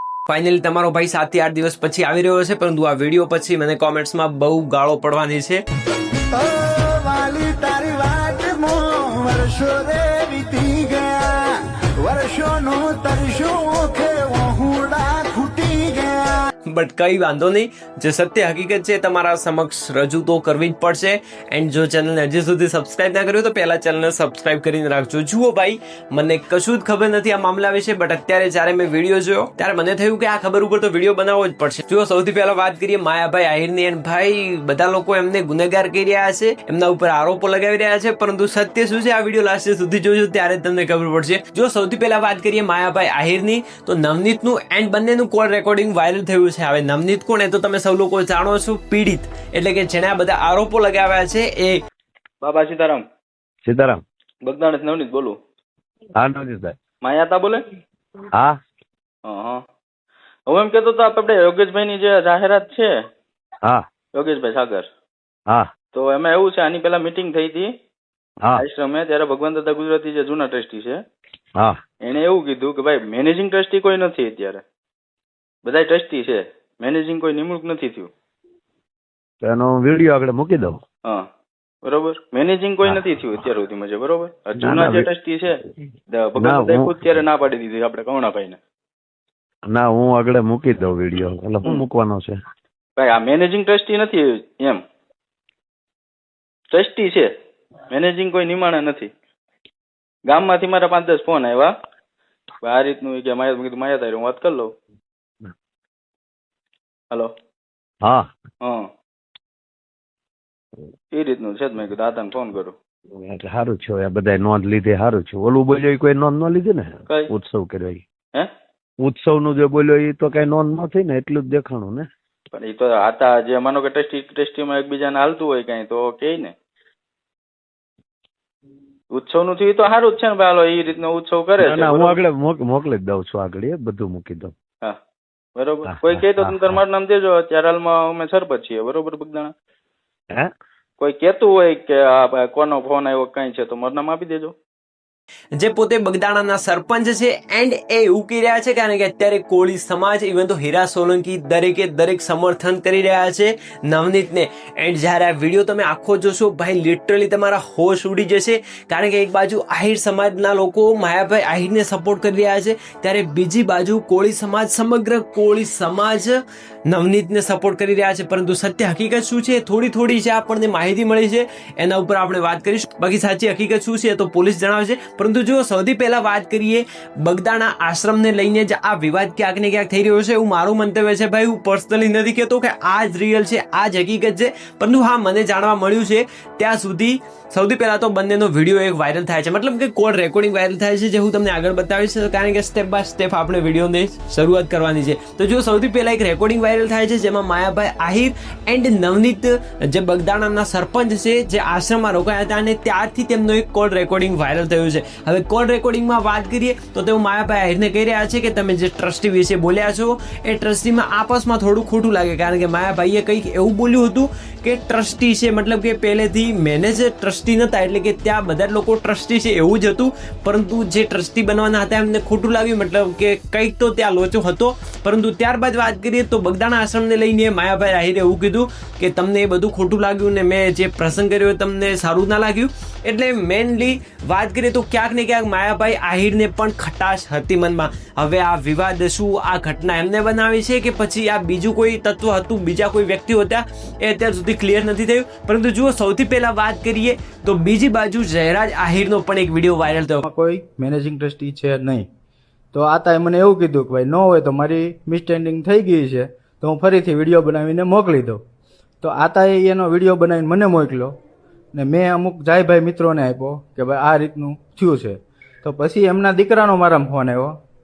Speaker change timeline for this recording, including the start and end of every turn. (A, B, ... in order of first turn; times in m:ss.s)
0:00.3-0:05.6 A
0:06.3-0:16.3 B
0:16.7-0:51.8 A
0:52.4-0:53.0 C
0:53.6-0:54.0 D
0:54.4-0:55.4 C
0:56.2-0:56.8 D
0:57.0-0:57.6 C
0:58.3-0:58.6 D
0:59.2-0:59.6 C
1:00.5-1:03.0 C
1:04.1-1:04.9 C
1:05.9-1:07.7 C
1:08.6-1:11.0 C
1:12.0-1:14.6 C
1:15.6-1:18.1 C
1:19.4-1:20.8 D
1:21.8-1:25.5 C
1:24.6-1:25.1 D
1:26.1-1:28.6 C
1:26.4-1:27.2 D
1:29.7-1:32.4 D
1:33.0-1:34.8 C
1:36.7-1:37.3 C
1:37.9-1:39.1 C
1:40.3-1:41.7 C
1:42.6-1:44.7 C
1:48.0-1:48.3 D
1:48.6-1:48.9 C
1:51.1-1:52.8 C
1:53.2-1:58.0 D
1:59.0-2:02.1 D
2:02.5-2:06.5 C
2:09.1-2:12.2 C
2:11.6-2:14.5 D
2:15.6-2:19.5 C
2:15.8-2:16.8 D
2:21.0-2:24.5 C
2:25.6-2:46.4 A
2:46.9-4:10.2 A
4:10.2-4:12.1 E
4:12.7-4:18.4 E
4:19.0-4:21.2 E
4:21.7-4:27.6 E